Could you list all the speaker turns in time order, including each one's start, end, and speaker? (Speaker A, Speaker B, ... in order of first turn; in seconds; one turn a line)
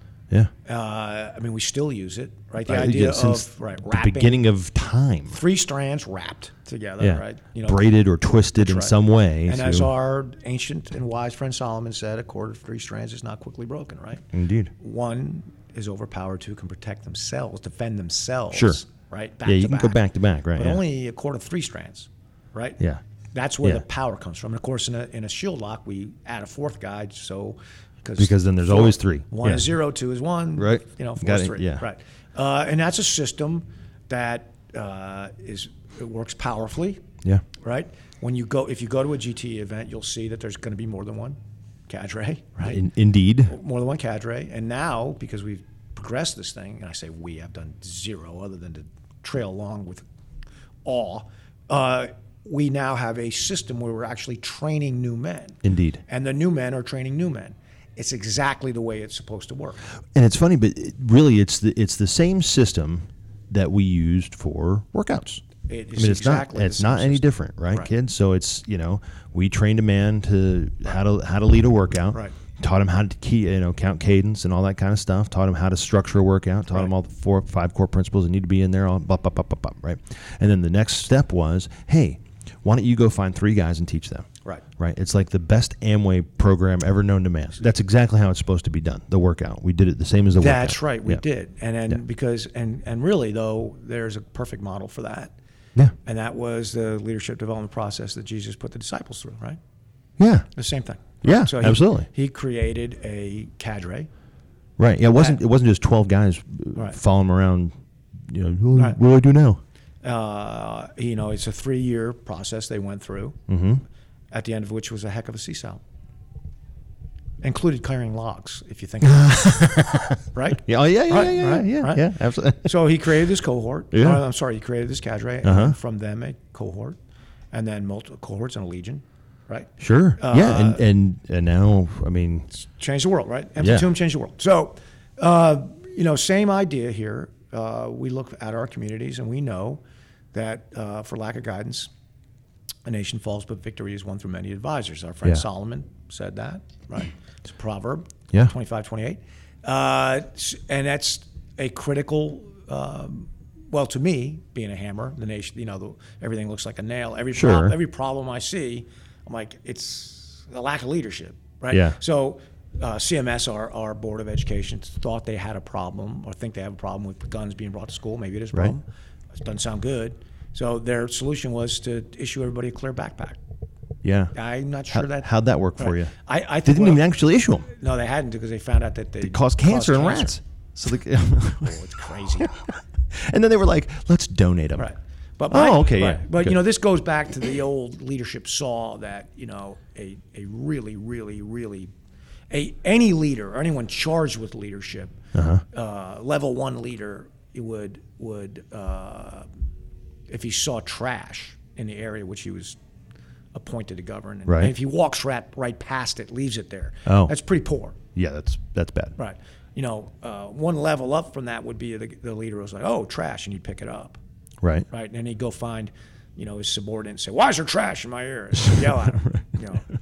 Speaker A: 0.7-4.4
Speaker B: 2.6-5.4
Speaker A: 5.3-7.9
Speaker B: 7.0-9.9
Speaker A: 8.6-14.2
Speaker B: 14.3-14.7
Speaker A: 14.8-20.0
Speaker B: 18.5-18.8
Speaker B: 19.4-20.8
Speaker A: 20.5-22.8
Speaker A: 23.3-37.0
Speaker B: 28.2-29.7
Speaker B: 30.6-31.9
Speaker A: 37.6-41.4
Speaker A: 41.9-42.8
Speaker B: 42.6-43.5
Speaker A: 43.5-50.0
Speaker A: 50.9-59.8
Speaker B: 55.6-56.0
Speaker B: 60.1-65.5
Speaker A: 65.7-67.9
Speaker B: 66.0-91.2
Speaker A: 90.4-95.3
Speaker A: 96.0-99.6
Speaker B: 100.2-100.5
Speaker A: 100.5-104.1
Speaker B: 101.2-102.1
Speaker B: 104.8-109.6
Speaker A: 105.1-105.4
Speaker A: 110.0-113.4
Speaker B: 113.5-113.8
Speaker A: 114.3-115.8
Speaker A: 117.4-119.8
Speaker B: 119.0-122.8
Speaker A: 120.3-122.0
Speaker A: 122.6-127.0
Speaker B: 123.9-124.2
Speaker B: 125.4-125.8
Speaker A: 127.5-130.8
Speaker B: 129.8-132.5
Speaker A: 132.5-139.8
Speaker B: 133.6-133.9
Speaker A: 140.3-141.9
Speaker A: 142.9-168.8
Speaker B: 157.3-157.8
Speaker B: 161.7-162.0
Speaker A: 169.4-173.4
Speaker B: 174.0-174.3
Speaker A: 174.3-177.0
Speaker B: 174.9-177.7
Speaker A: 177.7-180.4
Speaker B: 179.2-181.8
Speaker A: 181.6-182.6
Speaker B: 182.4-184.9
Speaker A: 184.8-191.9
Speaker B: 185.5-186.6
Speaker A: 192.5-195.2
Speaker B: 195.3-195.6
Speaker A: 195.7-199.5
Speaker A: 200.3-202.8
Speaker A: 203.5-208.0
Speaker B: 204.5-204.7
Speaker B: 207.1-207.3
Speaker B: 208.2-209.2
Speaker A: 209.2-214.2
Speaker B: 214.6-214.9
Speaker A: 214.9-219.9
Speaker B: 218.7-219.4